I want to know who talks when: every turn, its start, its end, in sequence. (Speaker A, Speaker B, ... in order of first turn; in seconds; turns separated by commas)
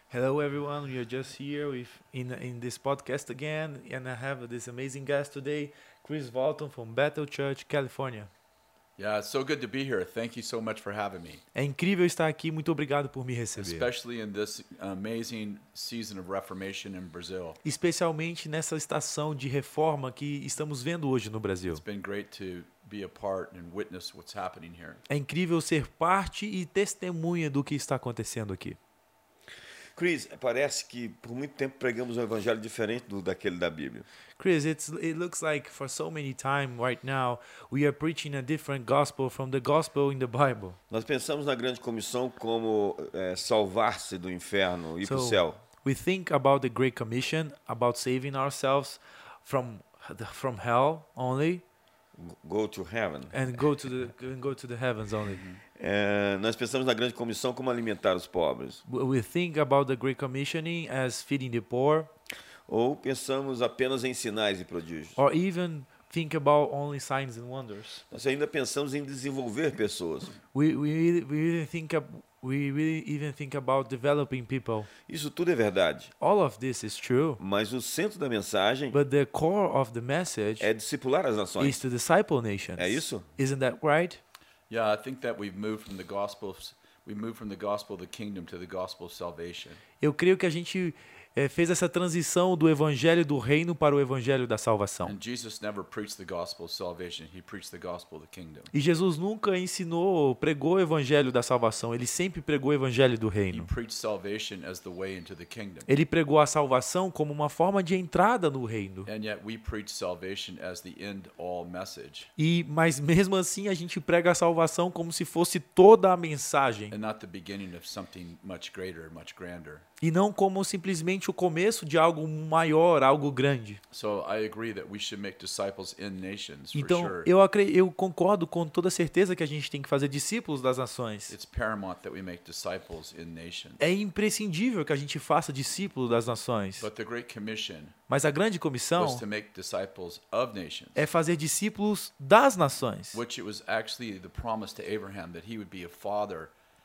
Speaker A: 0.1-8.3, Speaker B: 9.0-11.4, Speaker A: 11.5-13.9, Speaker B: 13.6-17.6, Speaker A: 17.6-21.8, Speaker B: 21.7-25.0, Speaker A: 25.1-28.8, Speaker C: 29.9-34.0, Speaker A: 34.4-40.8, Speaker C: 40.9-45.6, Speaker A: 45.0-51.6, Speaker C: 52.2-53.5, Speaker A: 53.3-55.4, Speaker B: 55.3-55.6, Speaker C: 55.8-58.8, Speaker A: 58.9-62.1, Speaker C: 62.7-65.2, Speaker A: 65.2-68.0, Speaker C: 68.1-70.3, Speaker A: 70.5-74.9, Speaker C: 75.0-76.1, Speaker A: 76.2-77.4, Speaker C: 77.4-79.0, Speaker A: 78.9-80.7, Speaker C: 80.6-81.8, Speaker A: 81.6-84.2, Speaker C: 82.8-83.2, Speaker B: 84.7-89.8, Speaker A: 90.0-95.1, Speaker B: 95.0-98.7, Speaker A: 98.7-103.7, Speaker B: 103.5-105.9, Speaker A: 105.9-109.1, Speaker B: 109.0-112.3, Speaker A: 112.4-116.9, Speaker B: 116.9-119.8, Speaker A: 120.0-123.8, Speaker B: 123.9-127.3, Speaker A: 126.7-131.3, Speaker B: 131.3-133.8, Speaker A: 133.8-136.9, Speaker B: 136.8-137.9, Speaker A: 138.1-139.2, Speaker B: 138.9-141.0, Speaker A: 140.9-143.2, Speaker B: 143.1-146.5